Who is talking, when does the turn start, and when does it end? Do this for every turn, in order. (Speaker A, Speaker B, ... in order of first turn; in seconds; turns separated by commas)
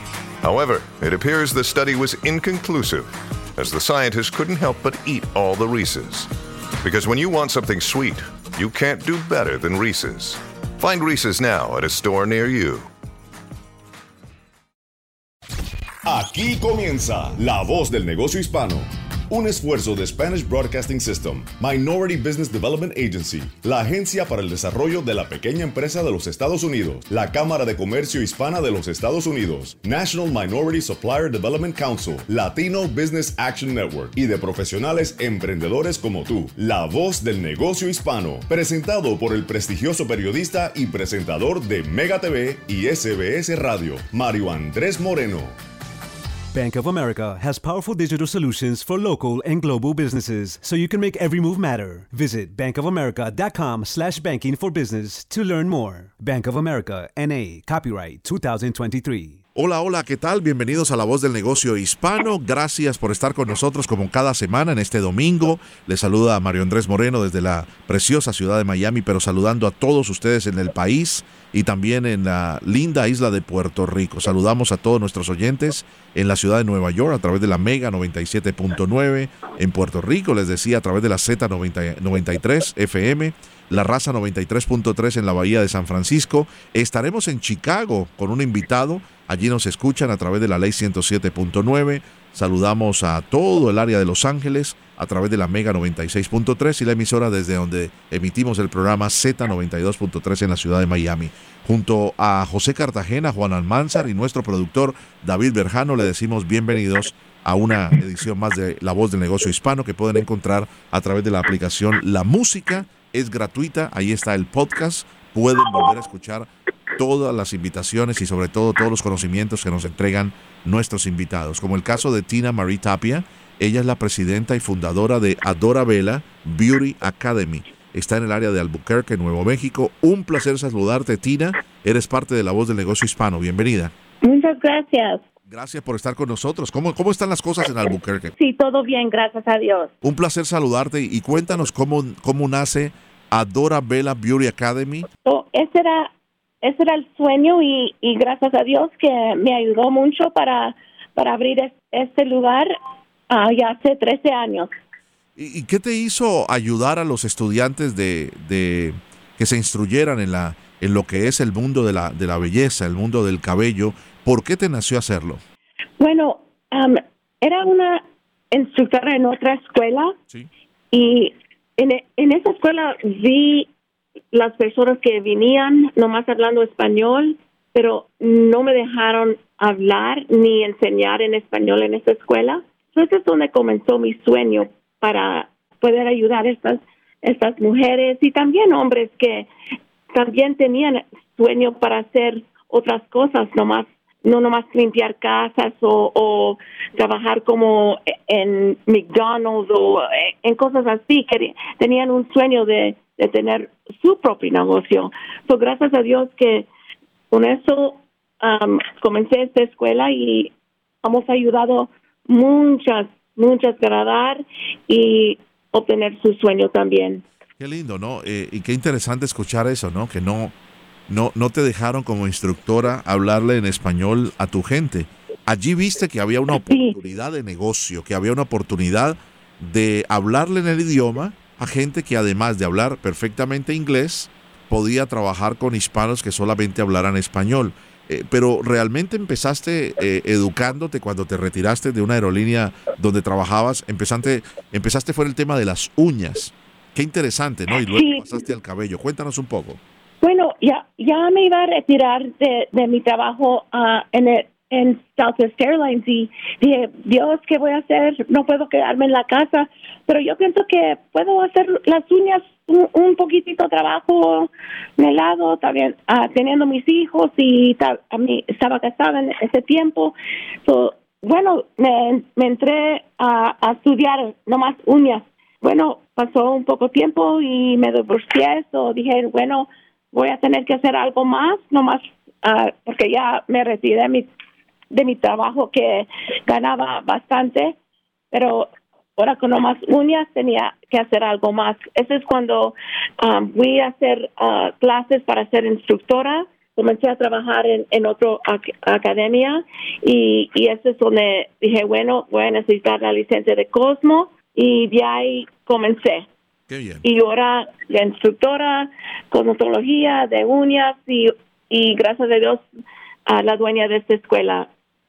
Speaker A: 0.4-6.3, Speaker A: 6.8-12.9, Speaker B: 16.1-45.5, Speaker C: 46.5-59.4, Speaker D: 59.5-133.9, Speaker E: 134.2-135.2, Speaker D: 135.5-138.3, Speaker E: 138.4-139.9, Speaker D: 140.0-145.1, Speaker E: 145.2-146.1, Speaker E: 146.6-152.7, Speaker E: 153.3-154.7, Speaker D: 155.3-165.4, Speaker E: 166.0-170.2, Speaker E: 170.9-173.7, Speaker E: 174.3-189.5, Speaker E: 190.1-206.7, Speaker E: 207.3-210.5, Speaker E: 211.0-217.2, Speaker D: 217.6-220.5, Speaker D: 221.1-249.8, Speaker E: 226.6-226.9, Speaker E: 247.9-248.3, Speaker E: 250.2-270.1, Speaker E: 270.6-284.3, Speaker E: 284.9-287.8, Speaker E: 288.3-306.2, Speaker D: 306.7-307.0, Speaker E: 307.0-312.6, Speaker E: 313.2-314.7